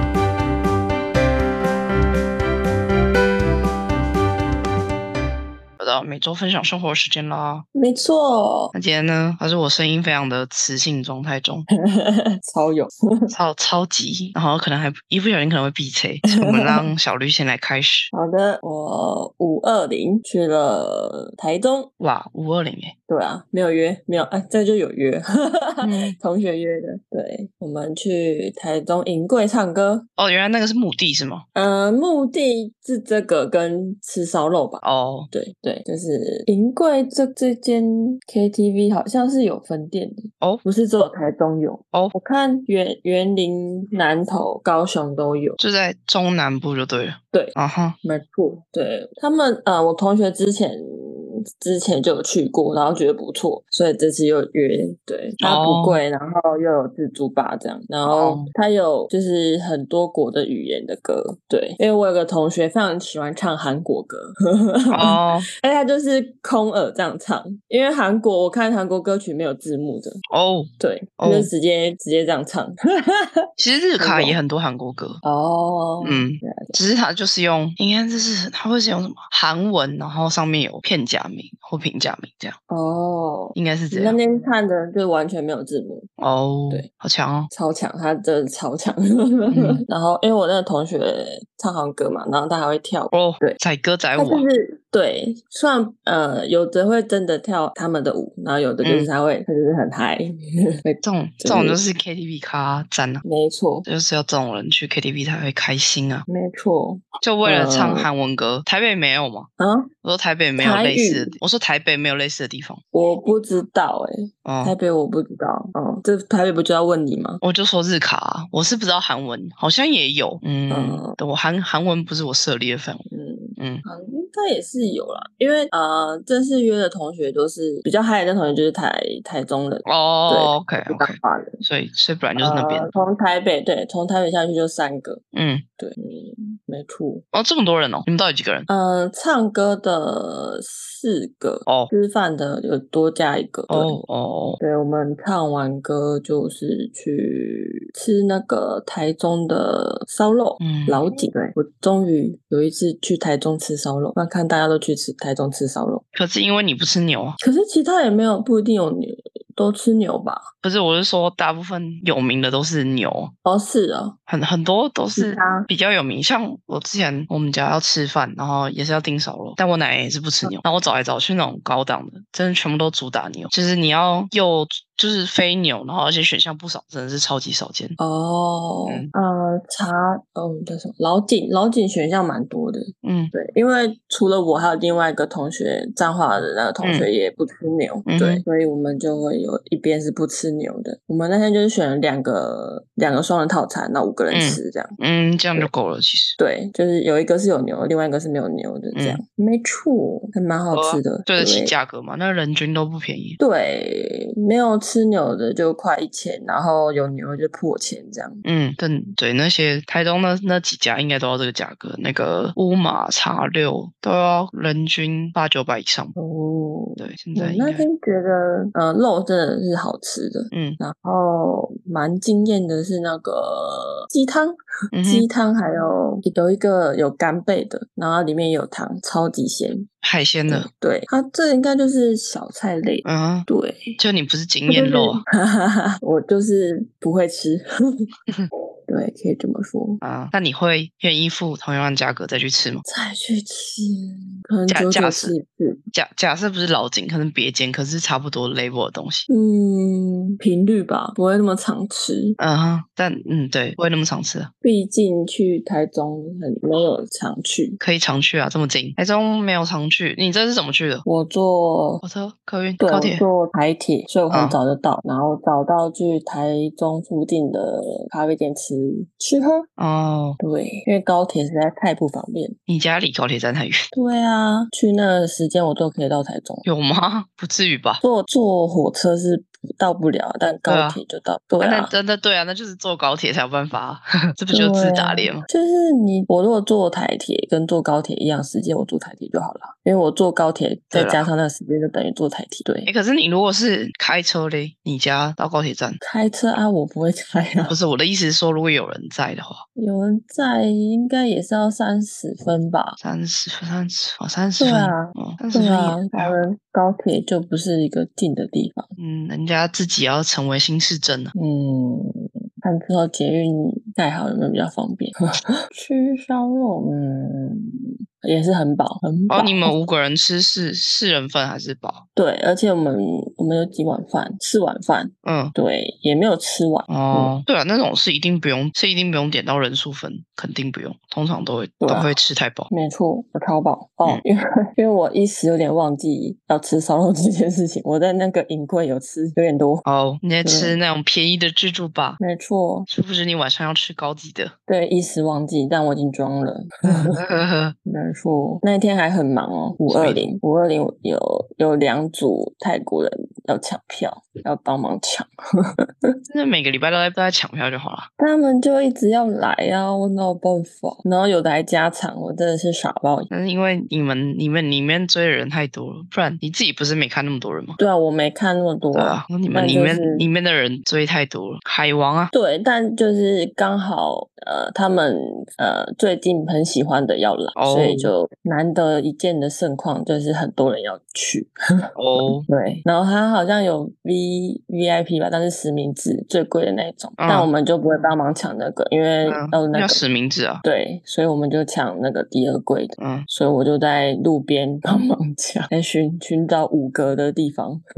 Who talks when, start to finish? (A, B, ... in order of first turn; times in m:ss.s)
0:05.8-0:07.7 A
0:07.8-0:08.7 B
0:08.7-0:11.7 A
0:11.7-0:13.3 B
0:13.3-0:18.1 A
0:16.3-0:16.8 B
0:18.1-0:21.9 B
0:22.0-0:22.9 A
0:23.1-0:30.1 B
0:25.8-0:26.2 A
0:30.2-0:31.4 A
0:31.6-0:45.6 B
0:34.8-0:35.3 A
0:45.6-0:48.0 A
0:47.3-1:10.2 B
0:55.4-0:56.0 A
0:58.0-0:58.5 A
1:04.9-1:05.5 A
1:10.3-1:11.5 A
1:10.8-1:13.5 B
1:13.6-1:15.2 A
1:14.0-1:14.4 B
1:15.2-1:16.8 B
1:16.0-1:22.6 A
1:22.7-1:26.1 B
1:23.6-1:24.2 A
1:26.2-1:27.5 A
1:27.5-1:33.6 B
1:29.5-1:29.8 A
1:33.1-1:34.5 A
1:34.2-1:41.8 B
1:38.8-1:39.1 A
1:41.0-1:43.2 A
1:43.2-1:43.9 B
1:43.8-1:46.3 A
1:46.3-1:48.1 B
1:47.2-1:49.5 A
1:49.6-1:49.9 B
1:50.0-1:52.8 A
1:50.6-1:51.3 B
1:52.9-1:57.4 B
1:54.4-1:54.7 A
1:57.4-2:03.0 A
2:00.7-2:01.2 B
2:03.1-2:11.6 B
2:03.6-2:03.8 A
2:09.8-2:12.9 A
2:12.4-2:15.2 B
2:15.3-2:15.6 A
2:15.8-2:17.2 B
2:17.3-2:18.7 A
2:18.7-2:24.0 B
2:21.7-2:21.9 A
2:23.7-2:24.6 A
2:24.6-2:36.0 B
2:30.6-2:31.0 A
2:36.1-2:37.4 A
2:37.4-2:40.4 B
2:40.6-2:43.3 A
2:43.4-2:44.2 B
2:44.3-2:58.0 A
2:45.2-2:45.7 B
2:58.0-3:15.0 B
3:03.0-3:03.3 A
3:06.8-3:07.1 A
3:08.1-3:08.4 A
3:14.3-3:16.4 A
3:16.4-3:21.7 B
3:18.9-3:19.2 A
3:20.7-3:23.4 A
3:23.4-3:28.4 B
3:28.4-3:36.2 A
3:36.2-3:49.9 B
3:37.0-3:37.9 A
3:40.5-3:40.8 A
3:44.9-3:45.3 A
3:50.0-3:50.7 A
3:50.5-3:54.0 B
3:53.0-3:53.5 A
3:54.0-3:55.2 A
3:54.7-3:58.1 B
3:58.9-4:00.0 B
4:00.0-4:02.8 A
4:02.9-4:05.8 B
4:04.7-4:05.4 A
4:05.9-4:09.3 A
4:09.3-4:12.4 B
4:12.4-4:14.5 A
4:14.6-4:17.8 B
4:17.8-4:21.0 A
4:21.0-4:22.0 B
4:22.0-4:23.2 A
4:22.8-4:29.7 B
4:24.3-4:24.6 A
4:29.8-4:30.4 A
4:30.4-4:32.6 B
4:32.7-4:33.9 A
4:33.9-4:36.6 B
4:36.6-4:38.0 A
4:38.0-4:41.9 B
4:40.7-4:41.0 A
4:41.6-4:45.5 A
4:44.5-4:52.9 B
4:50.9-4:51.3 A
4:52.9-4:56.0 A
4:56.0-4:57.8 B
4:57.6-4:59.6 A
4:59.8-5:03.0 B
5:03.0-5:06.4 A
5:04.6-5:08.9 B
5:09.0-5:11.3 A
5:11.4-5:15.2 B
5:15.7-5:19.7 B
5:19.3-5:22.0 A
5:22.2-5:27.4 B
5:25.2-5:25.5 A
5:26.9-5:32.7 A
5:31.8-5:32.2 B
5:32.7-5:39.8 B
5:39.8-5:42.2 A
5:40.4-5:40.8 B
5:42.2-5:42.9 B
5:42.9-5:44.5 A
5:44.7-5:47.2 B
5:46.9-5:47.8 A
5:47.9-5:55.3 B
5:49.9-5:50.3 A
5:56.3-5:58.1 A
5:58.2-6:03.3 B
6:03.3-6:07.8 A
6:07.8-6:10.3 B
6:08.9-6:12.3 A
6:12.3-6:21.5 B
6:17.6-6:18.1 A
6:22.0-6:22.5 A
6:22.2-6:30.0 B
6:27.2-6:27.5 A
6:29.3-6:30.6 A
6:30.6-6:37.8 B
6:33.0-6:33.3 A